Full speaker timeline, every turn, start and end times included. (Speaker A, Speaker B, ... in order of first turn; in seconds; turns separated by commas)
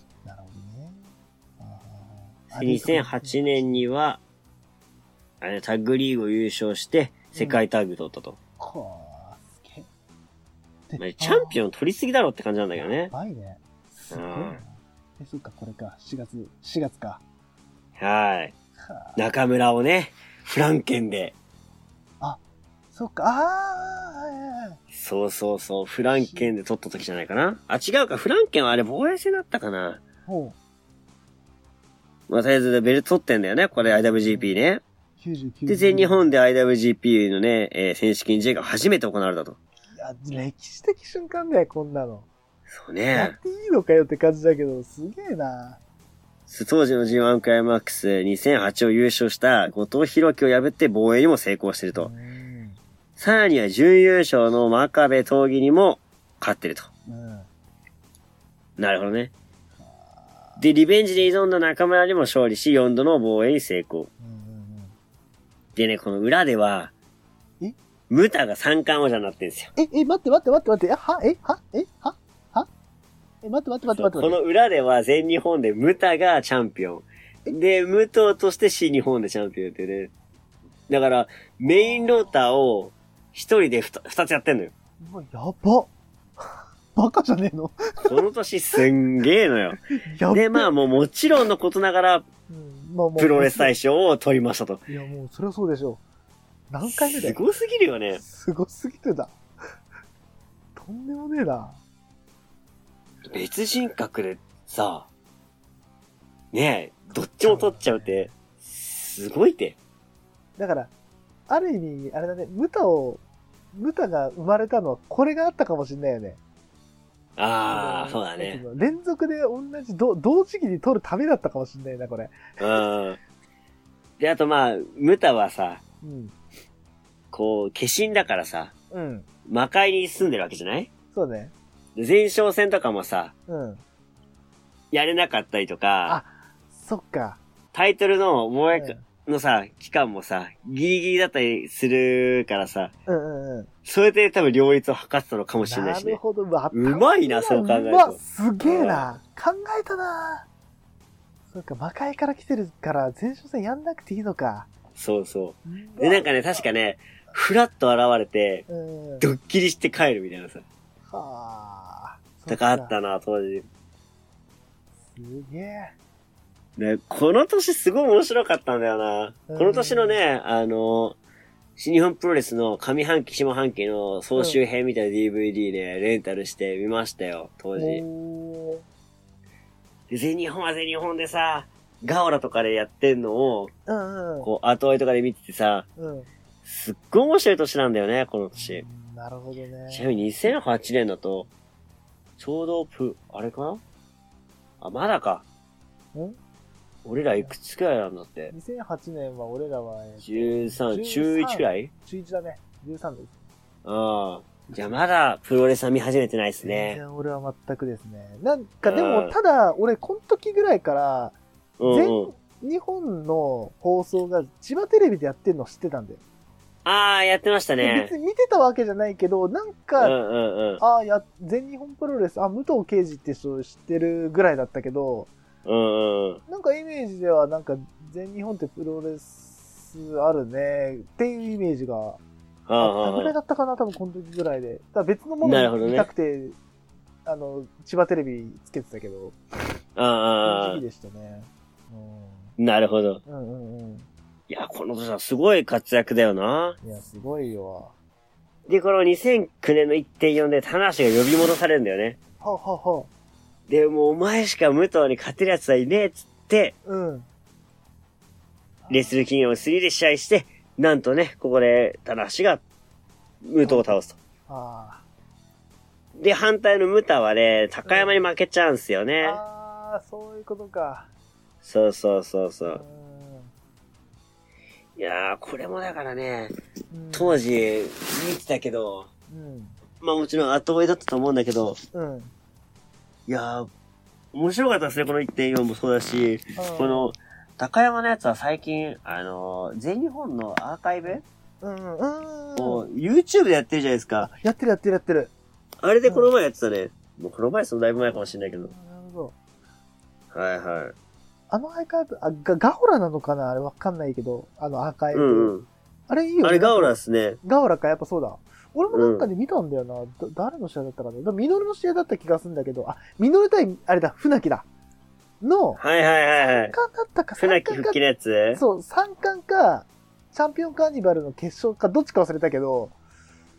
Speaker A: 0.2-3.9, Speaker B: 2.5-4.2, Speaker B: 5.4-8.4, Speaker A: 7.3-7.6, Speaker A: 8.6-9.9, Speaker A: 10.9-11.6, Speaker B: 11.0-13.1, Speaker A: 12.8-17.2, Speaker B: 14.1-14.6, Speaker B: 18.0-18.5, Speaker A: 18.8-19.3, Speaker B: 19.1-21.3, Speaker A: 22.2-24.8, Speaker B: 24.9-30.0, Speaker A: 26.1-26.5, Speaker A: 30.2-30.6, Speaker B: 32.3-34.8, Speaker A: 33.8-34.5, Speaker A: 35.2-36.3, Speaker B: 35.7-39.6, Speaker A: 40.0-42.3, Speaker B: 42.7-43.4, Speaker A: 43.1-45.8, Speaker B: 46.5-52.1, Speaker A: 51.9-52.8, Speaker B: 53.2-56.9, Speaker A: 57.1-57.5, Speaker B: 58.8-59.3, Speaker A: 59.8-60.6, Speaker B: 60.6-64.1, Speaker A: 64.2-64.9, Speaker B: 65.8-66.9, Speaker B: 68.1-69.7, Speaker A: 69.8-72.7, Speaker A: 73.4-74.4, Speaker B: 73.9-80.1, Speaker B: 80.9-84.7, Speaker A: 81.8-82.3, Speaker A: 85.0-88.2, Speaker B: 88.0-89.8, Speaker A: 90.0-90.7, Speaker B: 90.3-92.2, Speaker A: 92.5-93.7, Speaker B: 93.2-94.8, Speaker A: 94.9-96.0, Speaker A: 96.7-97.4, Speaker B: 96.9-98.2, Speaker A: 98.2-99.4, Speaker A: 100.8-101.8, Speaker B: 103.2-105.1, Speaker B: 106.5-109.8, Speaker A: 107.4-108.3, Speaker A: 110.6-110.9, Speaker A: 111.5-116.4, Speaker B: 117.4-118.6, Speaker A: 117.7-122.8, Speaker B: 122.6-123.2, Speaker B: 124.2-125.8, Speaker A: 126.0-126.3, Speaker B: 127.3-128.7, Speaker A: 128.9-129.2, Speaker B: 129.4-130.9, Speaker A: 131.1-131.5, Speaker B: 131.9-133.3, Speaker A: 133.5-133.8, Speaker B: 134.9-136.2, Speaker A: 136.0-137.4, Speaker B: 137.7-142.9, Speaker A: 138.7-139.0, Speaker A: 143.1-143.7, Speaker B: 143.8-146.2, Speaker A: 145.6-150.5, Speaker B: 146.7-149.1, Speaker A: 151.5-154.7, Speaker B: 154.9-158.7, Speaker A: 155.7-156.7, Speaker A: 158.7-159.2, Speaker B: 159.2-160.6, Speaker A: 161.1-162.9, Speaker B: 162.5-163.7, Speaker A: 165.1-165.9, Speaker B: 166.8-171.2, Speaker A: 169.5-170.2, Speaker B: 171.8-178.0, Speaker A: 174.3-174.6, Speaker A: 177.7-178.8, Speaker B: 180.1-183.7, Speaker A: 183.8-184.5, Speaker B: 184.4-185.9, Speaker A: 186.0-186.3, Speaker B: 186.6-188.8, Speaker A: 188.5-190.2, Speaker B: 189.9-191.5, Speaker B: 192.4-193.8, Speaker B: 194.8-195.4, Speaker B: 197.0-198.5, Speaker A: 198.5-203.4, Speaker B: 200.2-201.9, Speaker B: 203.8-207.0, Speaker A: 206.6-216.2, Speaker B: 208.8-209.3, Speaker B: 211.8-212.3, Speaker B: 216.8-218.1, Speaker A: 217.8-220.2, Speaker B: 220.0-220.8, Speaker A: 220.8-225.3, Speaker B: 225.6-226.4, Speaker A: 226.5-232.2, Speaker B: 232.7-233.3, Speaker A: 232.8-236.6, Speaker B: 235.4-236.1, Speaker A: 237.2-239.4, Speaker B: 239.9-240.8, Speaker A: 240.4-242.6, Speaker B: 242.6-243.2, Speaker A: 243.2-244.1, Speaker B: 244.5-246.8, Speaker A: 246.8-247.9, Speaker B: 248.7-252.2, Speaker A: 252.4-253.1, Speaker B: 253.7-256.8, Speaker A: 256.9-257.3, Speaker A: 258.8-259.4, Speaker B: 258.9-262.6, Speaker B: 263.4-264.1, Speaker A: 263.6-265.0, Speaker B: 266.1-269.4, Speaker A: 267.8-268.2, Speaker A: 269.2-271.1, Speaker B: 271.6-272.8, Speaker A: 272.7-273.5, Speaker B: 275.0-276.5, Speaker A: 276.9-277.4, Speaker B: 277.1-279.1, Speaker A: 279.3-279.8, Speaker B: 280.0-281.8, Speaker A: 281.9-282.3, Speaker B: 283.3-283.7, Speaker B: 284.3-291.2, Speaker A: 286.6-287.1, Speaker A: 291.0-292.8, Speaker B: 292.6-294.3, Speaker A: 294.2-295.3, Speaker B: 295.8-298.7, Speaker A: 296.0-296.3, Speaker A: 297.9-299.3, Speaker B: 300.3-300.9, Speaker A: 301.5-305.5, Speaker B: 305.1-305.7, Speaker A: 306.1-314.7, Speaker B: 306.4-307.4, Speaker B: 308.9-309.3, Speaker A: 315.4-315.8, Speaker B: 315.8-316.7, Speaker A: 316.4-318.0, Speaker B: 317.4-318.6, Speaker A: 318.5-322.9